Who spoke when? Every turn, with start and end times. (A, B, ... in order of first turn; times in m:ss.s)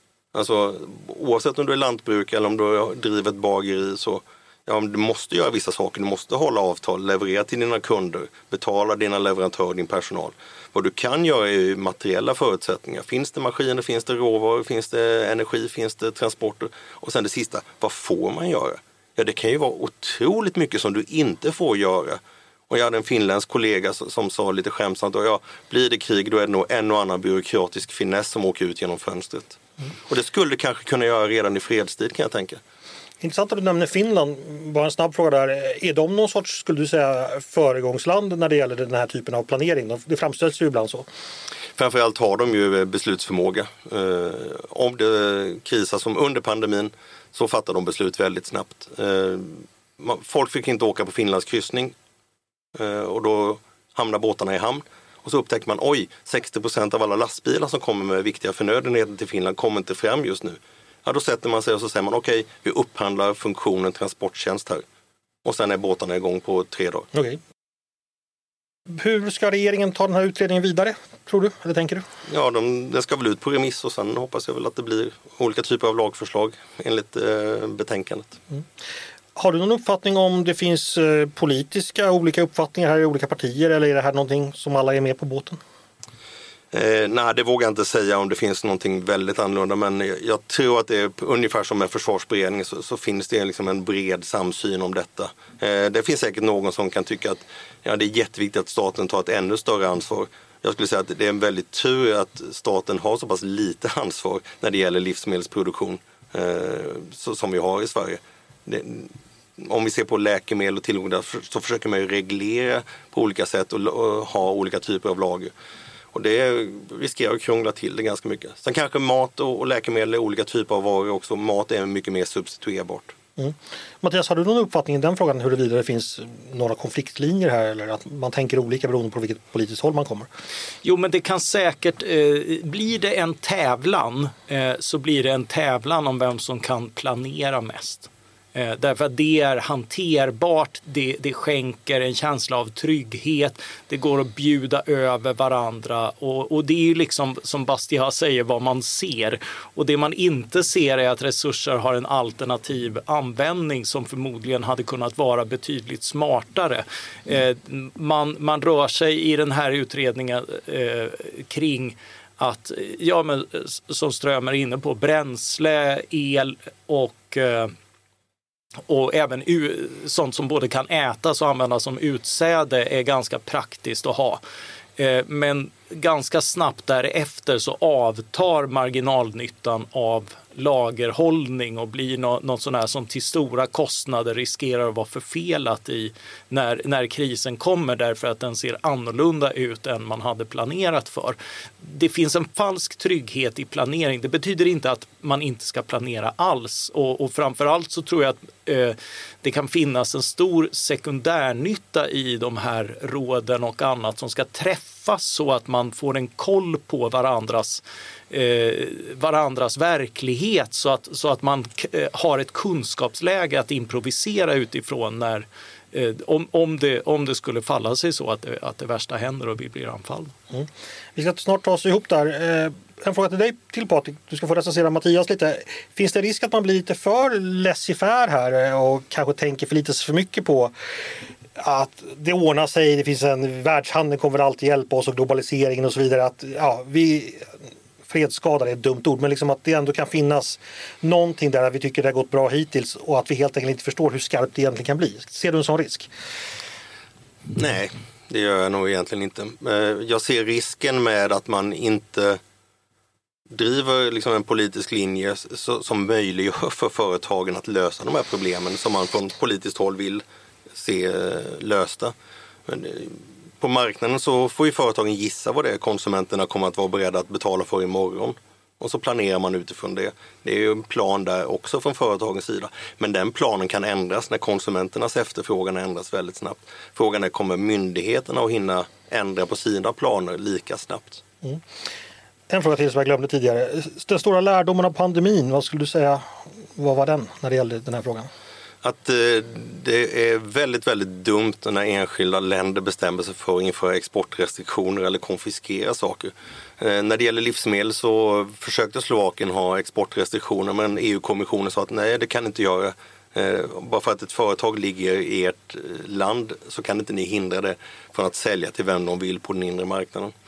0:00.3-0:32.6 A
0:33.2-0:41.1 B
0:41.8-0:51.9 A
0:52.7-1:04.8 A
1:05.4-1:07.1 A
1:07.1-1:07.4 B
1:08.9-1:12.0 B
1:12.3-1:18.4 A
1:19.4-1:25.6 B
1:26.7-1:55.5 A
1:56.1-2:03.1 A
2:03.4-2:10.3 B
2:10.8-2:47.7 C
2:48.9-2:54.4 C
2:55.0-3:40.3 C
3:40.5-3:50.7 B
3:51.6-3:57.4 B
3:58.1-4:06.1 B
4:07.5-4:12.4 A
4:13.5-4:20.2 A
4:20.7-4:22.1 A
4:22.7-4:41.2 A
4:42.5-4:48.3 B
4:48.8-5:10.3 A